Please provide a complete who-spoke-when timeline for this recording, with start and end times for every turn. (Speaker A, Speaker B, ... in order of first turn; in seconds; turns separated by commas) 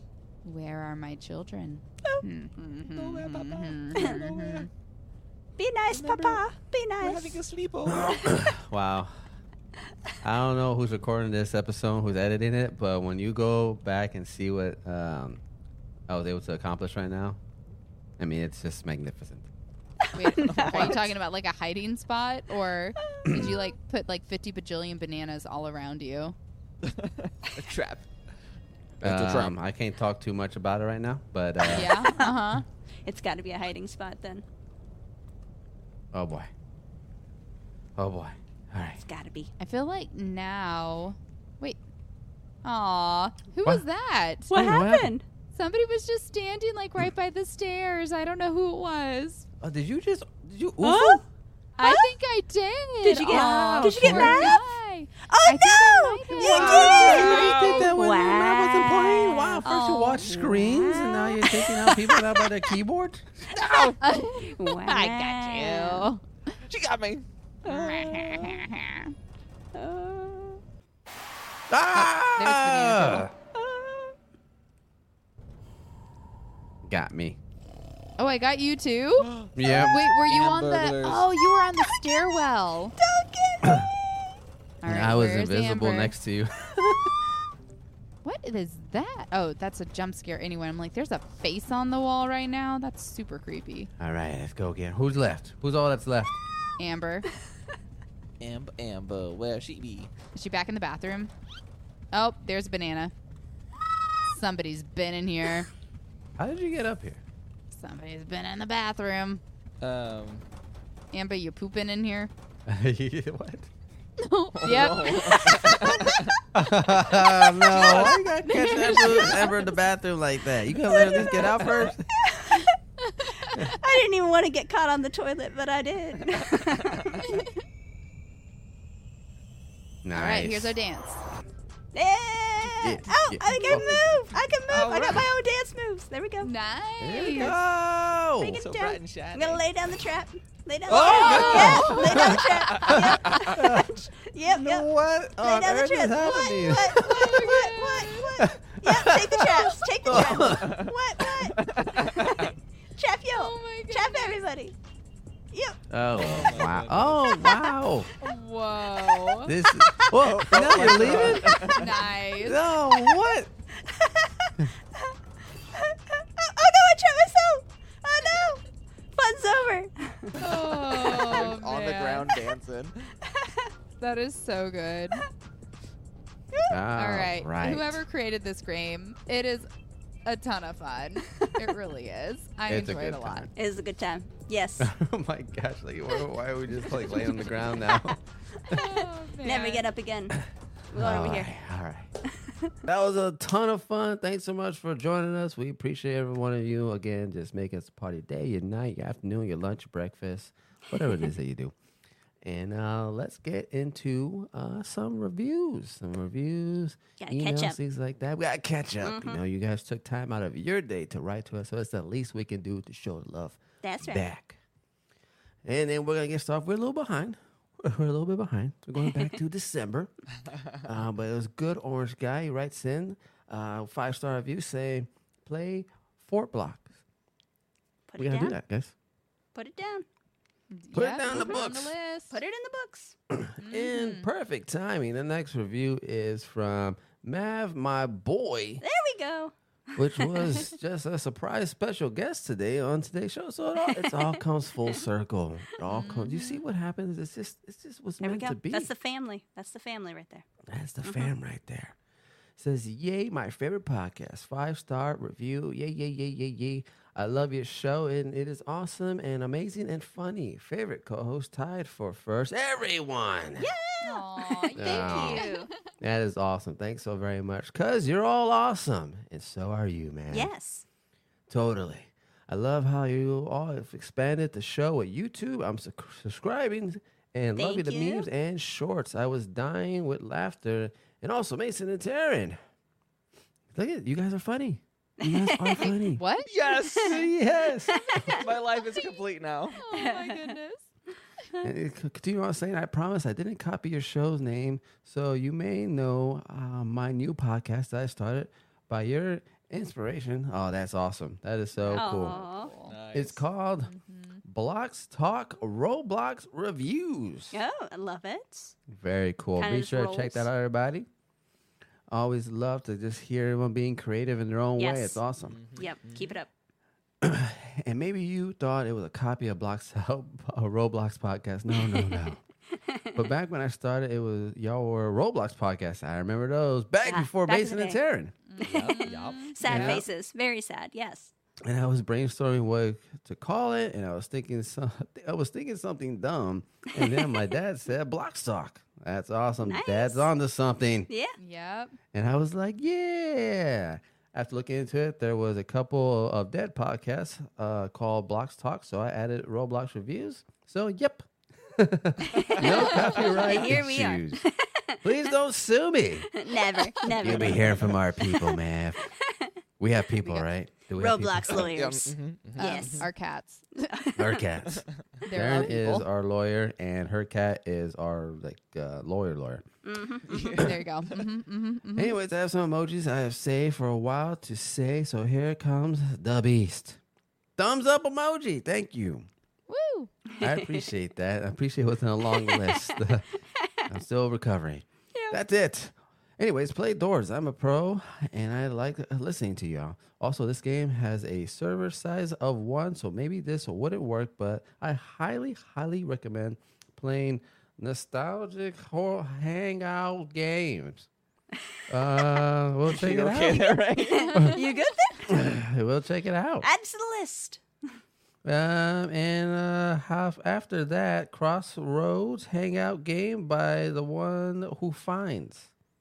Speaker A: 0.5-4.7, Speaker B: 2.8-4.7, Speaker C: 5.6-7.4, Speaker B: 5.9-6.4, Speaker B: 7.0-8.3, Speaker D: 7.9-9.1, Speaker D: 10.2-15.4, Speaker D: 16.1-17.4, Speaker D: 18.2-19.5, Speaker C: 20.1-21.0, Speaker A: 20.1-26.4, Speaker B: 20.4-21.0, Speaker C: 23.1-23.5, Speaker D: 23.3-23.6, Speaker B: 26.8-28.1, Speaker B: 29.0-29.5, Speaker D: 29.0-31.9, Speaker A: 31.7-32.6, Speaker C: 32.0-32.4, Speaker C: 33.0-34.4, Speaker D: 36.1-36.5, Speaker D: 38.0-39.0, Speaker C: 39.0-39.5, Speaker A: 39.6-41.8, Speaker A: 42.6-44.5, Speaker C: 44.5-45.2, Speaker D: 44.5-45.1, Speaker A: 45.5-49.5, Speaker D: 49.6-51.2, Speaker C: 50.8-51.2, Speaker A: 51.8-57.3, Speaker C: 51.8-52.1, Speaker C: 53.0-54.6, Speaker D: 53.3-54.6, Speaker C: 55.2-59.6, Speaker D: 56.4-63.5, Speaker B: 56.6-57.9, Speaker A: 59.6-60.3, Speaker C: 60.2-62.7, Speaker B: 63.5-64.0, Speaker A: 64.0-66.2, Speaker C: 64.6-66.0, Speaker B: 66.7-68.5, Speaker A: 67.7-69.1, Speaker C: 69.7-70.6, Speaker D: 71.7-73.3, Speaker A: 71.9-73.3, Speaker C: 73.5-74.2, Speaker D: 76.9-77.4, Speaker A: 78.2-79.3, Speaker B: 79.2-81.3, Speaker D: 79.5-80.0, Speaker A: 79.9-83.0, Speaker C: 81.8-82.2, Speaker C: 83.0-84.0, Speaker D: 83.6-83.9, Speaker A: 84.8-86.2, Speaker D: 84.8-87.1, Speaker A: 88.2-93.9, Speaker D: 94.0-96.4, Speaker A: 96.8-97.3, Speaker B: 98.4-100.1, Speaker A: 100.3-101.3, Speaker A: 102.1-103.1, Speaker A: 104.3-105.7, Speaker D: 106.4-107.2, Speaker A: 107.7-109.4, Speaker B: 109.8-110.5, Speaker A: 111.1-112.3, Speaker D: 112.7-113.7, Speaker A: 114.2-115.5, Speaker B: 114.6-116.3, Speaker C: 115.1-116.2, Speaker D: 116.5-122.1, Speaker B: 117.7-118.2, Speaker A: 118.0-119.4, Speaker C: 121.2-121.4, Speaker B: 121.5-121.9, Speaker C: 122.2-122.8, Speaker A: 123.0-123.5, Speaker C: 123.4-127.3, Speaker B: 126.2-127.2, Speaker D: 130.1-130.8, Speaker A: 130.1-131.2, Speaker C: 131.9-136.5, Speaker D: 132.8-134.0, Speaker A: 133.5-134.0, Speaker B: 134.7-135.3, Speaker A: 136.4-137.5, Speaker D: 137.0-138.6, Speaker B: 137.4-137.6, Speaker C: 138.4-144.9, Speaker B: 138.6-139.6, Speaker B: 140.9-143.8, Speaker A: 141.0-142.8, Speaker D: 141.6-142.0, Speaker D: 143.5-143.9, Speaker D: 144.5-147.6, Speaker C: 145.4-154.8, Speaker A: 147.0-148.3, Speaker D: 148.4-150.9, Speaker B: 150.1-152.6, Speaker A: 153.4-154.4, Speaker C: 155.5-155.8, Speaker D: 155.9-158.1, Speaker B: 156.2-157.3, Speaker C: 157.3-157.7, Speaker A: 158.2-159.5, Speaker D: 159.4-163.5, Speaker C: 159.7-161.7, Speaker B: 160.2-161.9, Speaker A: 161.7-162.6, Speaker C: 163.0-165.2, Speaker C: 165.7-168.6, Speaker C: 169.1-170.4, Speaker B: 170.4-173.1, Speaker A: 170.4-172.3, Speaker C: 173.2-173.7, Speaker A: 174.0-175.2, Speaker D: 176.7-178.0, Speaker A: 177.0-179.7, Speaker A: 180.2-183.5, Speaker D: 182.7-183.5, Speaker C: 183.6-184.9, Speaker D: 184.8-188.2, Speaker A: 188.7-189.8, Speaker C: 189.4-190.4, Speaker C: 190.9-191.5, Speaker D: 190.9-192.1, Speaker C: 192.3-192.7, Speaker D: 192.9-201.7, Speaker D: 202.4-214.6, Speaker C: 207.2-207.8, Speaker C: 209.0-209.4, Speaker C: 213.8-214.3, Speaker D: 215.7-220.1, Speaker D: 220.8-226.9, Speaker C: 228.1-228.6, Speaker D: 228.2-228.9, Speaker C: 229.6-230.1, Speaker A: 230.7-232.4, Speaker D: 230.9-231.9, Speaker C: 231.3-231.6, Speaker C: 232.3-233.2, Speaker D: 233.3-238.8, Speaker A: 233.6-234.3, Speaker C: 238.8-240.5, Speaker D: 240.0-248.9, Speaker C: 243.8-245.0, Speaker A: 245.9-246.6, Speaker C: 248.2-250.4, Speaker D: 250.7-252.0, Speaker C: 251.0-251.3, Speaker D: 252.6-263.7, Speaker C: 263.6-265.7, Speaker A: 264.0-265.7, Speaker D: 264.8-270.5, Speaker C: 270.3-270.9, Speaker D: 271.5-282.6, Speaker C: 277.6-278.3, Speaker D: 283.7-286.2, Speaker C: 285.2-286.0, Speaker A: 286.1-286.5, Speaker B: 286.5-287.3, Speaker D: 287.0-288.1, Speaker C: 287.9-288.6, Speaker A: 288.0-288.4, Speaker B: 288.3-289.9, Speaker A: 289.8-290.8, Speaker C: 289.9-290.6, Speaker D: 291.6-302.4, Speaker A: 301.8-303.0, Speaker C: 301.9-302.7, Speaker B: 302.3-303.4, Speaker D: 303.1-303.9, Speaker A: 303.9-304.4, Speaker D: 304.4-307.6, Speaker C: 307.5-308.8, Speaker D: 308.9-311.1, Speaker C: 309.6-310.5, Speaker D: 312.1-315.6, Speaker C: 314.8-315.2, Speaker B: 315.4-316.3, Speaker C: 315.8-316.5, Speaker D: 317.2-322.4, Speaker C: 321.7-323.3, Speaker D: 323.1-328.4, Speaker C: 327.0-328.0, Speaker A: 328.5-330.0, Speaker C: 328.6-331.3, Speaker B: 328.6-329.9, Speaker D: 329.6-330.0, Speaker D: 331.6-341.1, Speaker C: 337.0-337.4, Speaker C: 339.6-340.3, Speaker C: 341.1-341.4, Speaker A: 341.4-342.0, Speaker D: 342.1-354.4, Speaker C: 352.2-355.0, Speaker B: 352.3-353.2, Speaker D: 355.0-356.3, Speaker C: 356.3-359.5, Speaker D: 357.1-359.1, Speaker B: 357.2-357.9, Speaker D: 359.8-361.7, Speaker C: 360.0-363.1, Speaker B: 361.5-363.1, Speaker A: 362.6-363.9, Speaker C: 363.9-364.4, Speaker D: 364.2-369.6, Speaker A: 365.2-366.1, Speaker C: 369.8-370.6, Speaker B: 370.3-371.3, Speaker A: 370.6-372.1, Speaker D: 371.9-377.0, Speaker D: 377.6-379.3, Speaker A: 379.7-380.1, Speaker C: 380.4-380.7, Speaker D: 380.4-383.2, Speaker C: 382.4-383.0, Speaker C: 383.6-383.9, Speaker D: 383.9-401.1, Speaker C: 385.1-385.4, Speaker D: 401.9-403.8, Speaker B: 402.9-404.4, Speaker C: 403.5-405.3, Speaker A: 404.4-404.8, Speaker D: 405.3-406.7, Speaker C: 406.6-407.6, Speaker D: 408.4-415.7